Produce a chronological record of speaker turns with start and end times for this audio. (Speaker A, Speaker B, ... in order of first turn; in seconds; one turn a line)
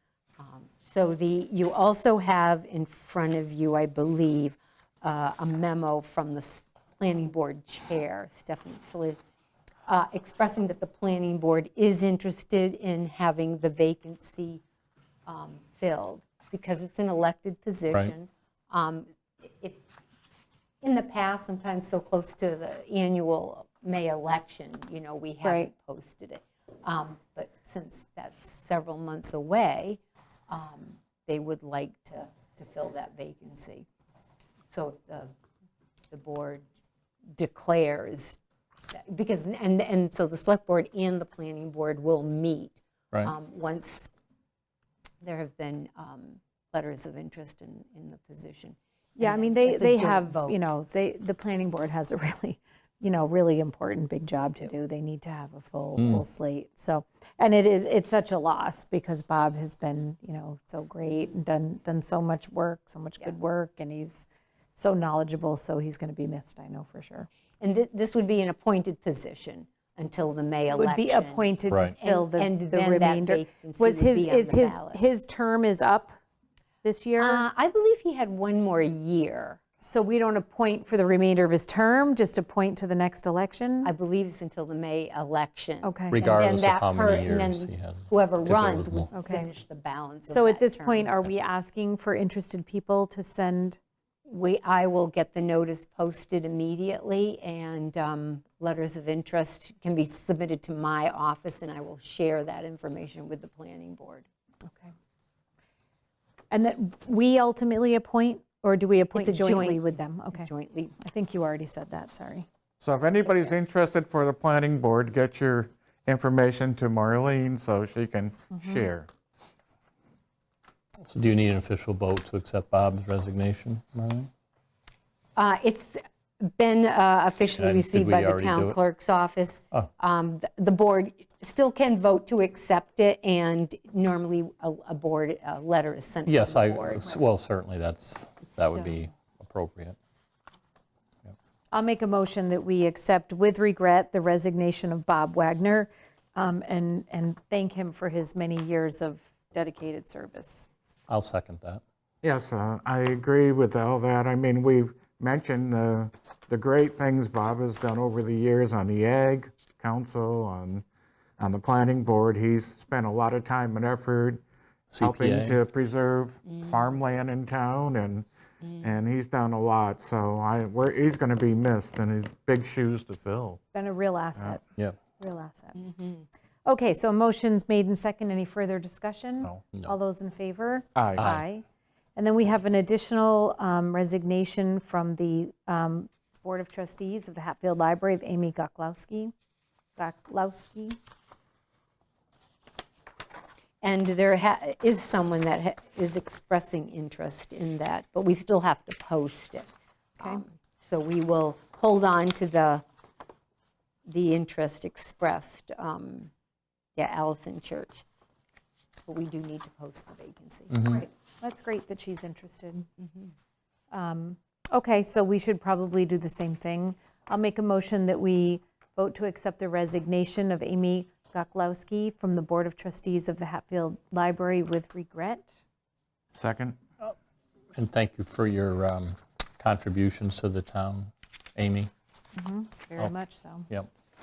Speaker A: 0.4-9.2
Speaker A: 9.8-14.6
Speaker A: 15.2-19.8
Speaker A: 20.8-33.9
Speaker B: 25.4-25.7
Speaker A: 34.7-35.3
Speaker A: 36.1-36.6
Speaker A: 37.3-38.4
Speaker A: 38.9-44.1
Speaker A: 45.2-50.6
Speaker B: 49.2-67.3
Speaker C: 56.0-56.2
Speaker A: 67.6-75.0
Speaker B: 70.7-76.2
Speaker C: 71.7-71.9
Speaker B: 76.8-77.5
Speaker A: 77.2-79.6
Speaker B: 79.8-83.9
Speaker A: 83.8-91.3
Speaker B: 85.8-86.2
Speaker C: 86.1-89.1
Speaker B: 89.1-89.5
Speaker B: 90.3-93.8
Speaker A: 94.2-104.3
Speaker B: 106.5-110.5
Speaker A: 109.1-111.0
Speaker B: 111.0-112.5
Speaker D: 112.8-119.1
Speaker B: 118.5-118.8
Speaker C: 121.0-124.3
Speaker A: 125.3-137.2
Speaker C: 127.5-128.8
Speaker C: 136.2-140.0
Speaker B: 141.7-150.7
Speaker C: 151.1-151.8
Speaker D: 152.2-160.8
Speaker D: 161.4-164.4
Speaker C: 164.9-165.6
Speaker D: 165.0-168.3
Speaker D: 168.8-173.6
Speaker B: 173.7-174.6
Speaker B: 175.2-175.8
Speaker A: 175.8-176.2
Speaker B: 176.7-181.6
Speaker D: 180.9-181.3
Speaker C: 181.2-181.4
Speaker B: 182.2-189.3
Speaker B: 190.0-191.0
Speaker A: 193.8-202.8
Speaker A: 204.1-206.3
Speaker A: 206.9-208.0
Speaker A: 209.1-211.0
Speaker B: 210.8-212.9
Speaker B: 213.9-225.5
Speaker D: 226.3-226.8
Speaker C: 227.7-231.9
Speaker B: 232.3-233.7